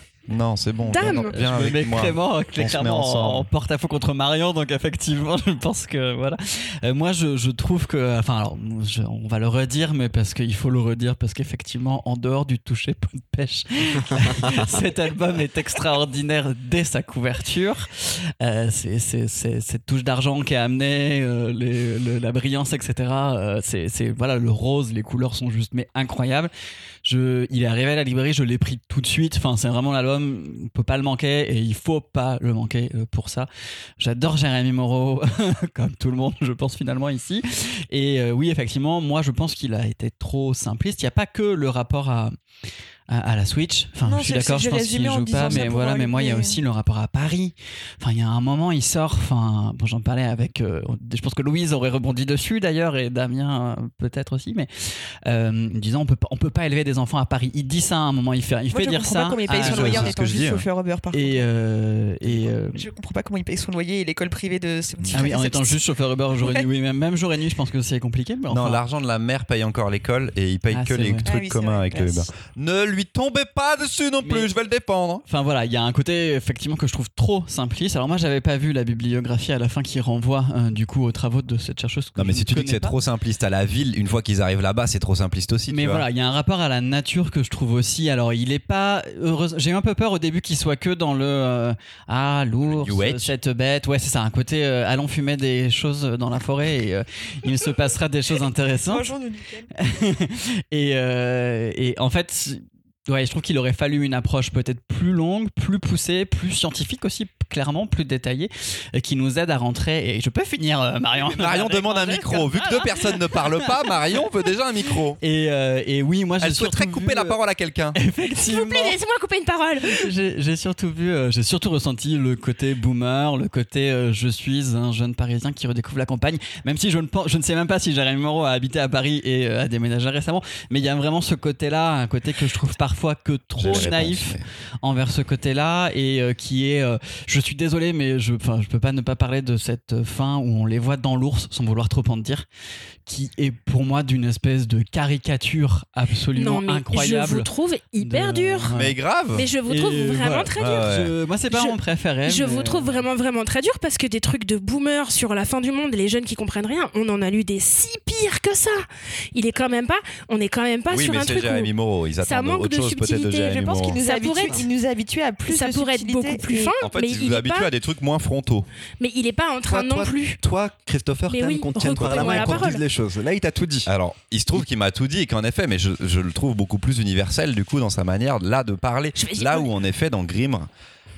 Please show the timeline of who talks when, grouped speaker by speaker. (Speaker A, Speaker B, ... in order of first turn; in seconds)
Speaker A: 0.3-3.5, 59.5-60.6, 68.5-75.2, 82.2-86.0, 92.7-93.3, 111.2-115.2, 116.4-118.0, 133.6-134.4, 148.7-149.5, 150.6-151.1, 160.9-164.0, 166.8-168.7, 173.9-180.7
Speaker B: 0.9-1.3, 118.3-120.1, 146.3-148.7, 149.3-150.9, 151.5-164.7, 165.5-167.7, 169.0-170.4, 171.3-172.8, 179.2-179.7
Speaker C: 1.0-26.5, 27.0-33.5, 34.0-42.4, 43.1-60.3, 61.1-62.9, 65.1-68.8, 70.7-71.3, 74.2-74.5, 75.3-83.0, 85.7-99.1, 99.7-113.9, 115.2-117.4, 117.9-119.0, 119.8-142.5, 143.1-148.9, 149.7-153.0
Speaker D: 44.0-46.6, 58.7-61.5, 62.3-65.8, 66.4-66.7, 71.2-72.3, 98.9-99.7, 163.6-166.7
Speaker E: 169.7-173.9